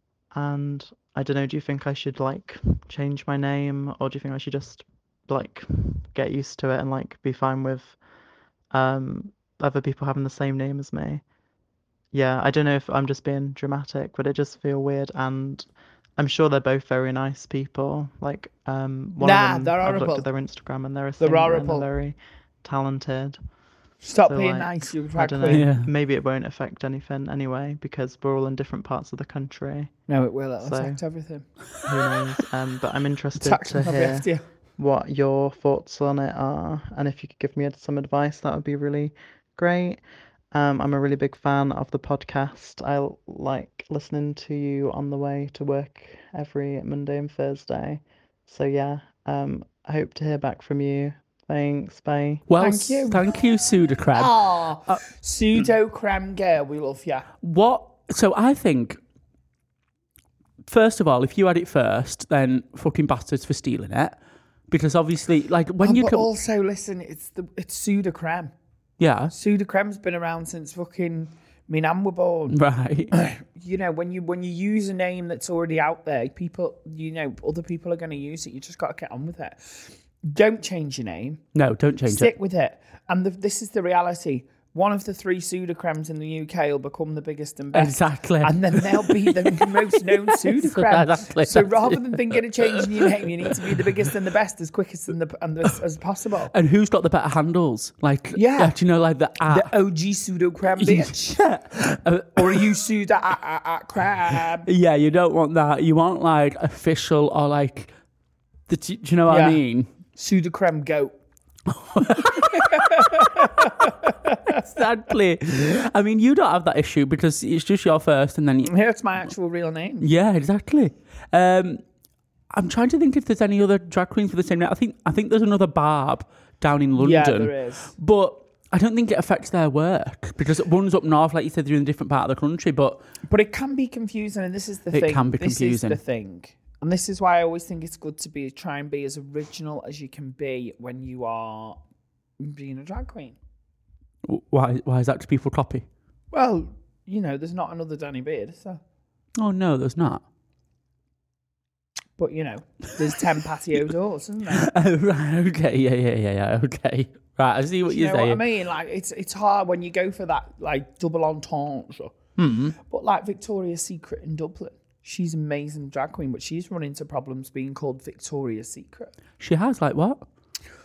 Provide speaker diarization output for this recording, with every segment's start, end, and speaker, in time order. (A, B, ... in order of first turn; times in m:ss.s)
0:00.3-0:08.0 A
0:08.7-0:11.2 A
0:12.1-0:23.4 A
0:19.2-0:20.3 B
0:21.2-0:21.9 B
0:24.0-0:25.8 B
0:24.2-0:30.0 A
0:25.5-0:25.9 C
0:30.1-0:31.4 B
0:30.6-0:31.0 A
0:31.8-0:40.0 A
0:33.4-0:34.4 B
0:40.5-0:52.4 A
0:52.5-0:55.0 C
0:52.5-0:53.3 B
0:54.1-0:57.2 B
0:57.4-0:59.0 C
1:00.7-1:04.2 C
1:04.7-1:06.3 C
1:05.8-1:08.5 B
1:09.0-1:09.3 C
1:09.3-1:12.6 B
1:12.5-1:13.1 C
1:13.1-1:21.4 B
1:21.5-1:22.3 C
1:22.0-1:36.5 B
1:27.7-1:33.1 C
1:36.5-1:39.7 C
1:38.3-1:38.8 B
1:39.5-1:41.5 B
1:40.8-1:42.7 C
1:42.4-1:44.7 B
1:44.6-1:47.9 C
1:48.7-1:49.9 C
1:49.3-1:51.2 B
1:51.7-1:53.3 C
1:52.5-1:54.6 B
1:54.5-1:58.7 C
1:58.6-2:00.1 B
2:00.0-2:01.8 C
2:02.5-2:13.0 C
2:07.0-2:07.9 B
2:13.3-2:21.8 B
2:14.9-2:16.0 C
2:22.4-2:23.4 B
2:24.2-2:25.8 C
2:26.3-2:28.8 B
2:29.4-2:30.2 C
2:32.2-2:34.7 B
2:34.5-2:38.4 C
2:37.8-2:42.1 B
2:42.4-2:42.8 C
2:42.8-2:49.1 B
2:49.4-2:50.2 C